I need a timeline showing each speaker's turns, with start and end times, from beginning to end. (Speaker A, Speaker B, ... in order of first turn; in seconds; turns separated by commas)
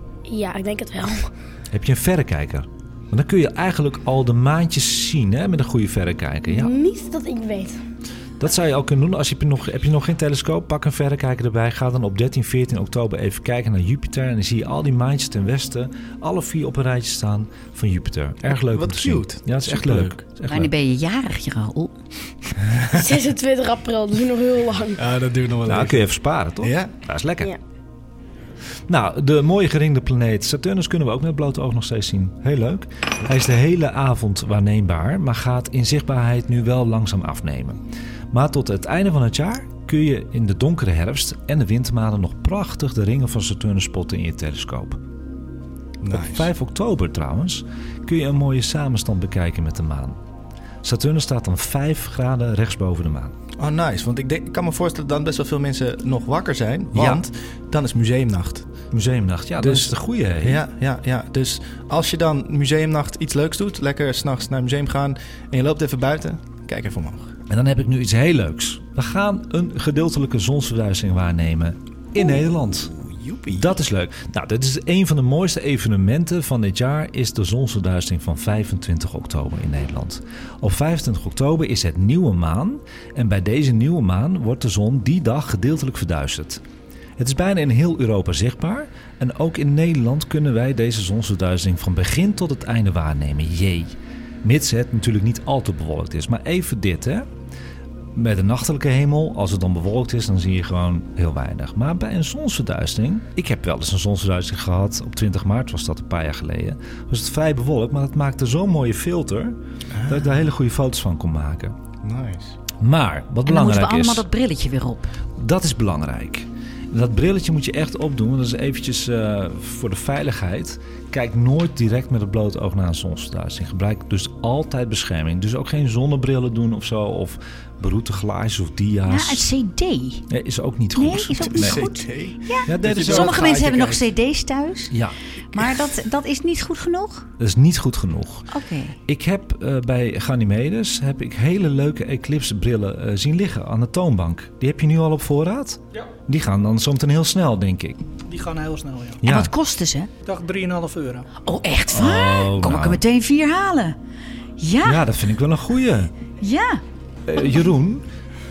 Speaker A: 0.3-1.3, Speaker B: 1.7-6.7, Speaker A: 6.5-7.8, Speaker B: 8.4-20.7, Speaker C: 18.5-20.2, Speaker D: 20.5-22.0, Speaker C: 22.6-23.2, Speaker A: 22.9-25.0, Speaker C: 25.0-26.1, Speaker B: 25.7-27.5, Speaker C: 26.6-26.9, Speaker B: 28.9-37.8, Speaker B: 38.3-45.0, Speaker C: 46.0-46.5, Speaker B: 46.1-50.2, Speaker B: 50.8-53.3, Speaker C: 53.6-58.7, Speaker B: 57.0-57.2, Speaker B: 58.9-60.7, Speaker C: 59.6-67.3, Speaker B: 67.5-73.0, Speaker C: 72.9-73.8, Speaker B: 73.5-86.6, Speaker B: 87.2-97.3, Speaker B: 98.2-111.8, Speaker C: 109.9-110.5, Speaker C: 112.0-112.6, Speaker B: 112.8-114.3, Speaker D: 113.5-115.1, Speaker B: 115.4-129.4, Speaker D: 129.1-130.3, Speaker B: 130.3-131.8, Speaker D: 130.9-134.9, Speaker C: 131.4-134.1, Speaker B: 132.7-133.4, Speaker D: 135.5-137.3, Speaker B: 137.4-138.5, Speaker D: 138.5-139.0, Speaker B: 139.1-148.0, Speaker E: 148.3-149.2, Speaker B: 149.2-149.5, Speaker D: 149.2-150.1, Speaker E: 150.2-151.3, Speaker D: 151.4-154.0, Speaker B: 151.9-153.0, Speaker D: 154.6-155.0, Speaker B: 154.8-156.1, Speaker D: 156.4-156.8, Speaker B: 157.3-158.1